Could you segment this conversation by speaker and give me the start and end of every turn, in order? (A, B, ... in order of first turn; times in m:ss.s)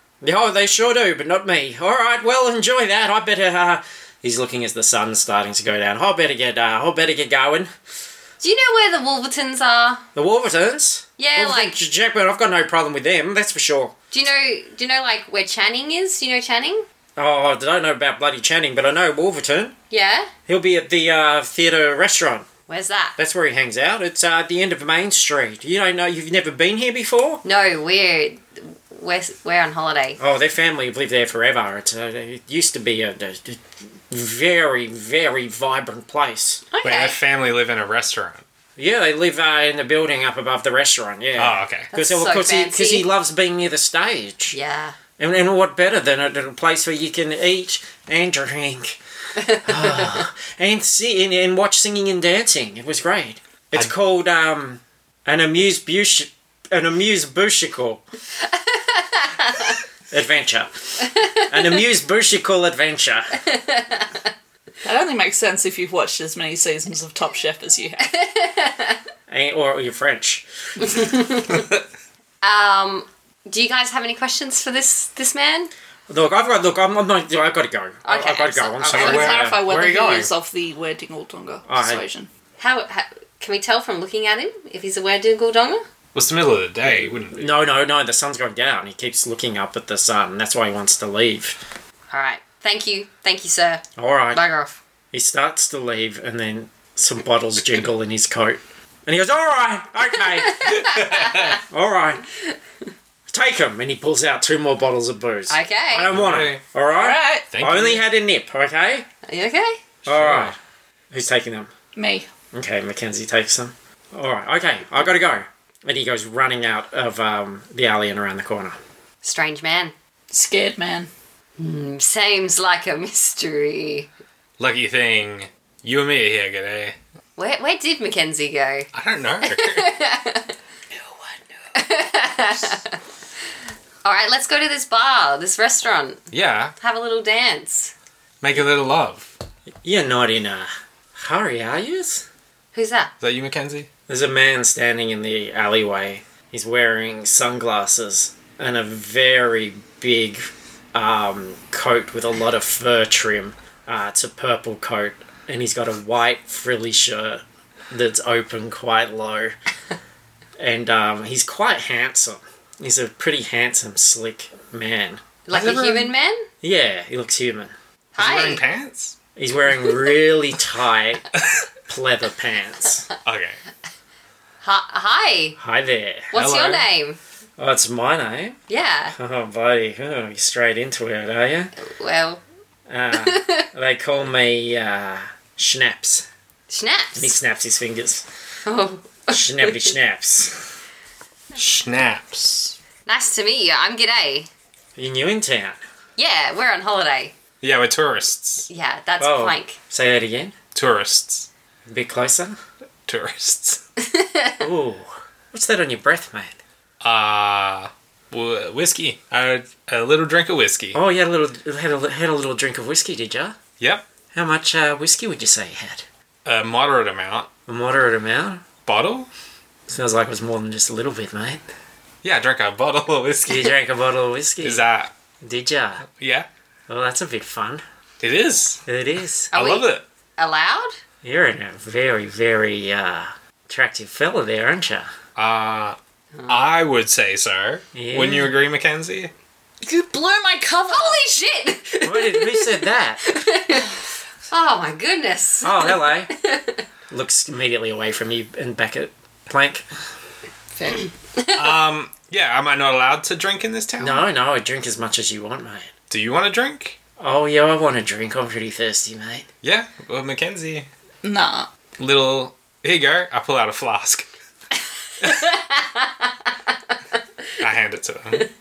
0:00.2-0:07.7 A
0:08.4-0:10.0 B
0:10.1-0:13.9 A
0:11.2-0:11.8 B
0:14.1-0:16.8 B
0:17.2-0:19.8 A
0:19.9-0:20.3 B
0:20.5-0:22.4 A
0:22.7-0:23.2 B
0:23.2-0:27.4 A
0:27.4-0:30.2 B
0:30.2-0:36.6 A
0:36.7-0:37.2 B
0:36.8-0:38.4 C
0:38.8-0:44.6 A
0:41.4-0:41.9 C
0:41.9-0:43.1 B
0:44.5-0:45.0 B
0:45.2-0:49.0 A
0:49.5-0:58.0 A
0:58.5-0:59.7 B
1:00.1-1:03.4 A
1:03.5-1:04.3 B
1:04.8-1:08.1 D
1:08.0-1:09.0 B
1:09.3-1:10.4 A
1:10.8-1:11.6 B
1:12.4-1:15.7 B
1:16.1-1:20.3 A
1:18.0-1:19.4 B
1:18.9-1:19.6 C
1:18.9-1:22.3 D
1:21.7-1:22.0 A
1:22.6-1:25.8 B
1:26.1-1:27.6 C
1:27.3-1:31.6 A
1:32.1-1:34.8 B
1:34.0-1:34.4 A
1:35.1-1:40.9 A
1:40.4-1:41.5 B
1:40.8-1:41.6 C
1:41.5-1:42.2 A
1:43.3-1:49.1 A
1:45.5-1:46.1 B
1:46.1-1:46.6 C
1:46.9-1:47.5 D
1:47.5-1:48.0 C
1:49.2-1:49.8 B
1:50.0-1:50.5 C
1:50.0-1:50.6 A
1:51.1-1:51.7 A
1:51.9-1:52.3 D
1:52.5-1:58.8 A
1:59.2-1:59.9 B
2:00.3-2:01.1 D
2:01.6-2:04.1 B
2:04.6-2:06.9 C
2:07.4-2:08.9 B
2:08.9-2:09.9 C
2:09.4-2:10.5 B
2:11.7-2:13.0 B
2:14.0-2:16.2 B
2:16.3-2:16.7 C
2:16.8-2:17.9 B
2:18.4-2:19.3 C
2:19.8-2:22.2 A
2:22.7-2:23.1 B
2:23.2-2:23.9 C
2:24.1-2:39.5 A
2:40.6-2:45.2 A
2:45.5-2:46.5 B
2:45.5-2:46.1 C
2:46.6-2:47.7 A
2:48.2-2:48.6 B
2:48.2-2:49.2 C
2:49.4-2:51.3 A
2:51.9-2:53.0 A
2:53.2-2:53.6 C
2:54.6-2:55.6 B
2:55.6-2:56.3 A
2:56.3-2:57.2 B
2:56.3-2:56.9 C
2:57.6-2:58.6 A
2:58.7-2:59.2 B
2:59.2-3:01.7 A
3:01.8-3:02.4 B
3:02.9-3:06.3 A
3:03.1-3:03.7 B
3:06.7-3:07.3 B
3:07.2-3:08.2 A
3:08.6-3:09.9 B
3:09.3-3:10.6 A
3:11.5-3:12.8 C
3:13.0-3:14.5 B
3:15.0-3:15.8 A
3:16.2-3:17.3 B
3:17.6-3:18.7 C
3:18.7-3:19.8 B
3:19.2-3:20.5 A
3:20.7-3:21.5 C
3:21.9-3:22.6 A
3:23.1-3:23.8 C
3:24.0-3:24.6 B
3:24.6-3:26.6 A
3:27.0-3:31.0 C
3:30.9-3:33.6 A
3:33.8-3:34.0 C
3:34.3-3:36.0 A
3:36.4-3:37.5 C
3:37.7-3:38.6 A
3:38.8-3:39.3 C
3:39.9-3:41.6 A
3:42.2-3:43.7 C
3:43.4-3:44.8 A
3:44.6-3:45.1 C
3:45.4-3:46.0 A
3:46.2-3:46.5 C
3:46.9-3:47.8 A
3:48.2-3:48.8 C
3:48.8-3:49.5 A
3:49.5-3:50.0 C
3:49.5-3:50.9 B
3:51.2-3:55.1 A
3:55.4-3:59.3 C
3:56.4-3:56.6 B
3:57.9-3:58.5 A
3:59.8-4:01.2 D
4:00.9-4:03.9 B
4:02.0-4:03.2 A
4:04.5-4:06.8 B
4:05.6-4:06.3 A
4:07.1-4:09.8 A
4:10.8-4:11.1 D
4:11.4-4:11.7 B
4:11.5-4:14.2 C
4:14.0-4:15.9 A
4:16.1-4:17.0 C
4:17.2-4:19.4 A
4:19.6-4:20.9 C
4:21.2-4:21.7 D
4:22.0-4:24.3 C
4:25.2-4:26.5 B
4:27.6-4:28.4 C